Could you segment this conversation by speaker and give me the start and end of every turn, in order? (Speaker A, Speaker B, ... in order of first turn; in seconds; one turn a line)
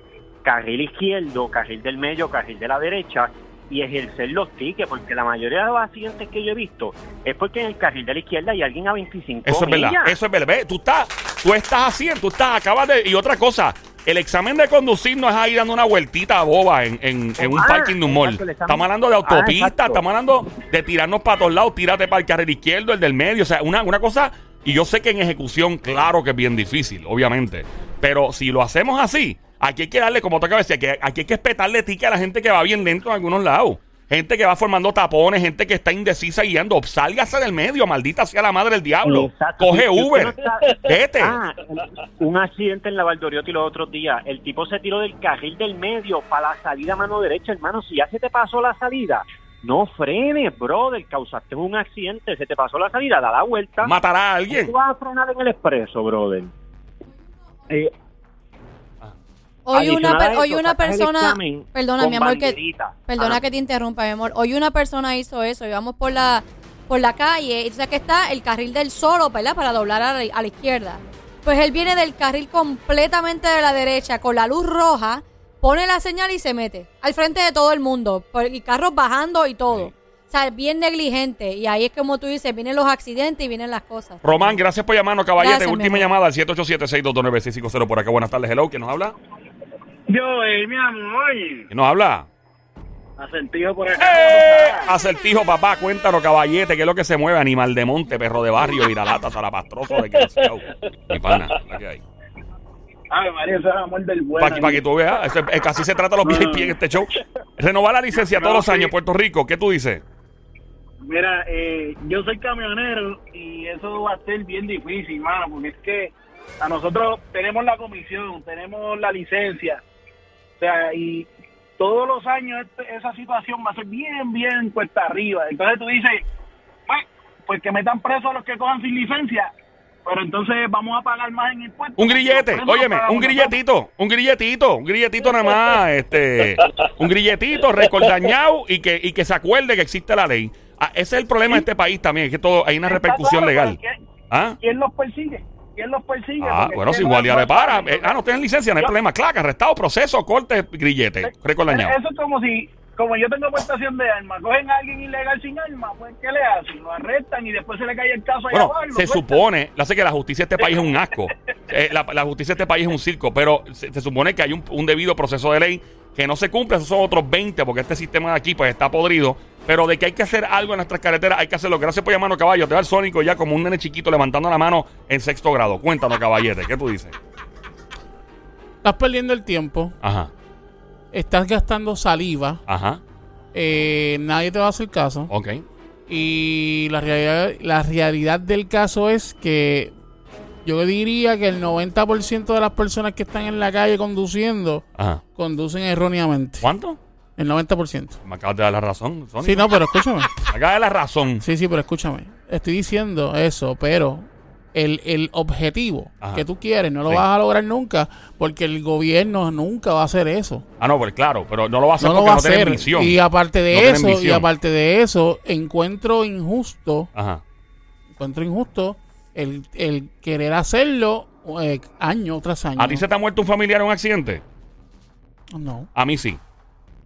Speaker A: 0.4-10.2
Speaker B: 9.4-41.4
Speaker A: 17.4-20.0
Speaker A: 39.0-53.9
Speaker B: 53.8-54.7
Speaker A: 54.5-56.5
Speaker C: 59.7-84.2
Speaker A: 59.7-63.4
Speaker B: 84.2-89.1
Speaker C: 85.4-86.1
Speaker D: 90.1-91.7
Speaker B: 91.7-92.3
Speaker D: 93.2-94.9
Speaker B: 94.0-102.0
Speaker D: 103.1-104.8
Speaker B: 104.4-110.0
Speaker D: 106.2-107.0
Speaker D: 108.1-108.9
Speaker D: 111.0-119.8
Speaker D: 120.6-126.2
Speaker D: 126.9-129.5
Speaker D: 130.1-133.6
Speaker B: 132.0-143.8
Speaker D: 142.8-143.9
Speaker B: 144.3-144.6
Speaker D: 144.6-148.2
Speaker B: 146.4-151.9
Speaker D: 151.2-159.4
Speaker B: 158.5-177.2
Speaker D: 160.6-160.9
Speaker E: 178.8-179.9
Speaker B: 180.0-180.3
Speaker E: 181.1-182.6
Speaker B: 182.7-183.0
Speaker E: 183.5-185.3
Speaker B: 185.3-185.7
Speaker E: 186.1-189.9
Speaker E: 190.7-196.7
Speaker B: 194.9-195.2
Speaker B: 196.6-197.0
Speaker E: 197.4-198.2
Speaker B: 198.2-199.8
Speaker E: 199.4-200.3
Speaker B: 200.4-201.5
Speaker E: 201.4-210.7
Speaker B: 210.8-213.2
Speaker E: 212.0-217.1
Speaker B: 213.7-214.5
Speaker B: 217.2-217.4
Speaker E: 218.2-223.1
Speaker B: 222.8-224.4
Speaker E: 225.6-225.9
Speaker B: 225.9-226.4